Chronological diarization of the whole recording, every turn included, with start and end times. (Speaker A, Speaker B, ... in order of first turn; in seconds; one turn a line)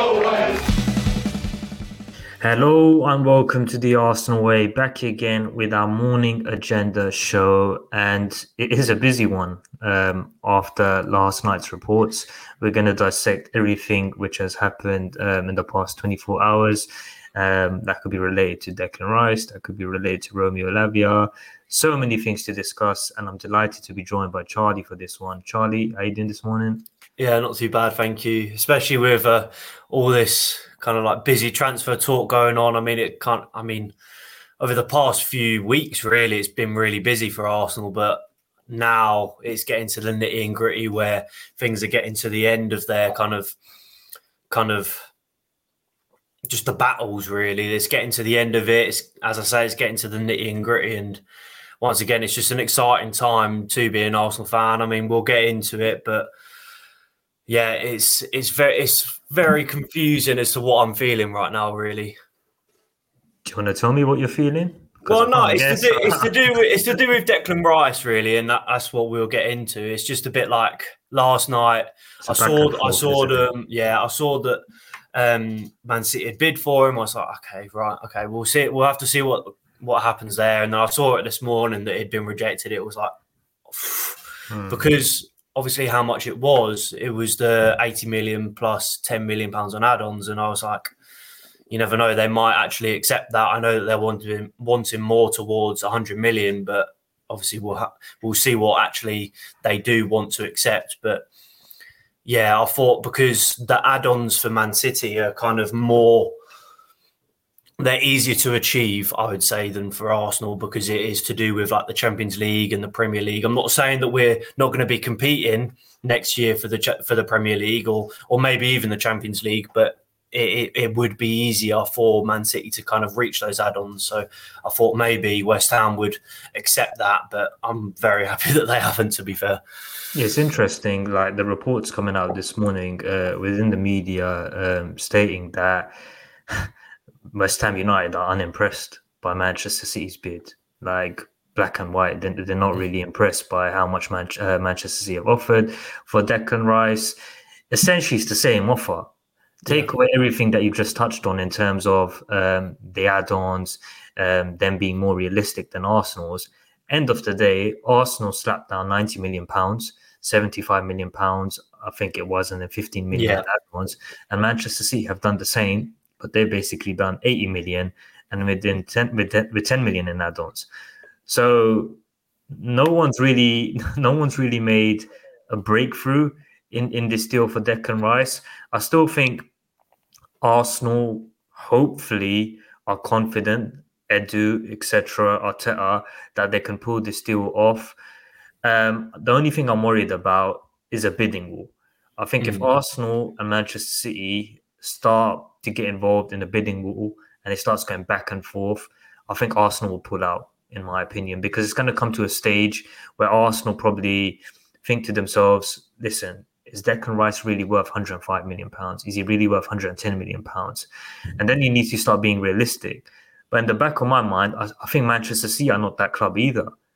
Speaker A: 2.4-26.8
Speaker B: 27.2-33.9
Speaker B: 34.6-43.5
Speaker B: 44.5-45.1
Speaker B: 46.5-51.2
Speaker B: 51.8-56.3
Speaker B: 57.5-62.2
Speaker A: 63.5-66.3
Speaker B: 65.0-74.6
Speaker A: 72.3-73.5
Speaker B: 75.1-83.1
Speaker B: 83.7-90.9
Speaker A: 84.5-84.8
Speaker B: 91.7-101.3
Speaker B: 102.2-106.3
Speaker B: 107.8-129.6
Speaker A: 130.1-135.9
Speaker A: 137.3-147.2
Speaker A: 147.7-149.1
Speaker A: 149.6-170.7
Speaker B: 163.1-163.4
Speaker A: 171.3-172.0
Speaker A: 172.5-179.5
Speaker A: 180.4-187.9
Speaker A: 188.6-210.9
Speaker B: 192.4-192.7
Speaker A: 211.4-216.7